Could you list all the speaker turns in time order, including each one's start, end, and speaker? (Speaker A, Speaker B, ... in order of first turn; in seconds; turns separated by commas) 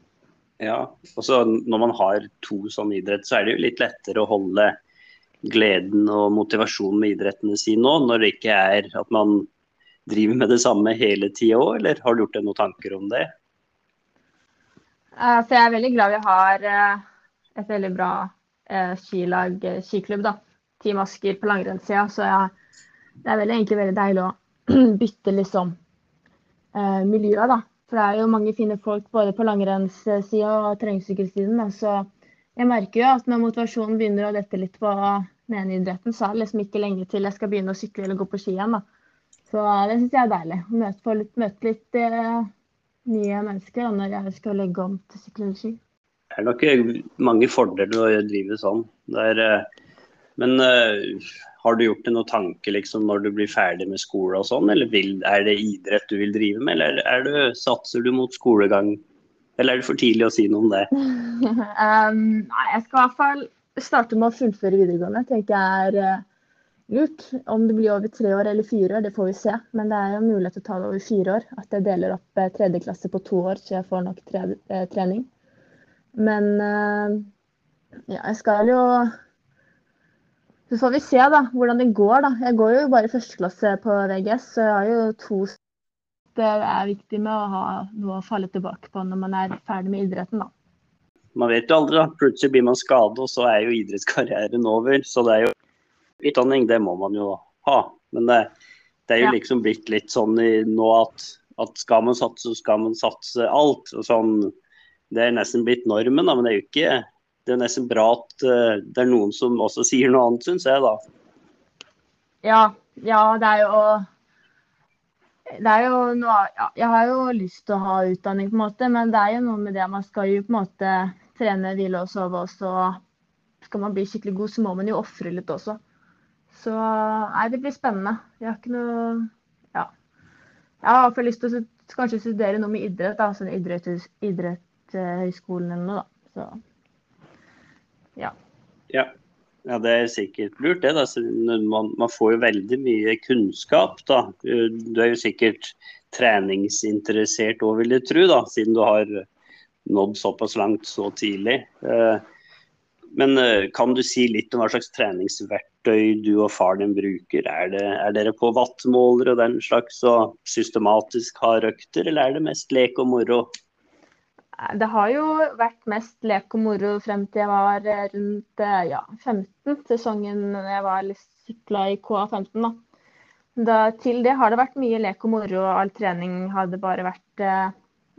Speaker A: 0.6-4.7, Speaker A: 5.4-9.5, Speaker A: 10.1-13.3, Speaker B: 15.2-17.0, Speaker B: 17.6-22.5, Speaker B: 23.2-25.8, Speaker B: 26.7-38.8, Speaker B: 39.5-42.5, Speaker B: 43.1-45.8, Speaker A: 46.3-49.7, Speaker A: 50.4-59.0, Speaker A: 59.6-60.9, Speaker B: 61.0-66.2, Speaker B: 66.9-75.3, Speaker B: 76.2-77.3, Speaker B: 78.1-79.1, Speaker B: 80.7-85.6, Speaker B: 86.3-90.5, Speaker A: 91.4-95.5, Speaker A: 96.2-98.5, Speaker A: 99.1-104.5, Speaker A: 105.1-111.0, Speaker B: 112.4-114.0, Speaker B: 115.6-123.0, Speaker B: 123.6-125.8, Speaker B: 126.5-129.9, Speaker B: 130.8-136.6, Speaker A: 139.7-149.3, Speaker A: 149.9-152.2, Speaker A: 153.1-163.5, Speaker B: 164.7-172.8, Speaker B: 173.6-177.7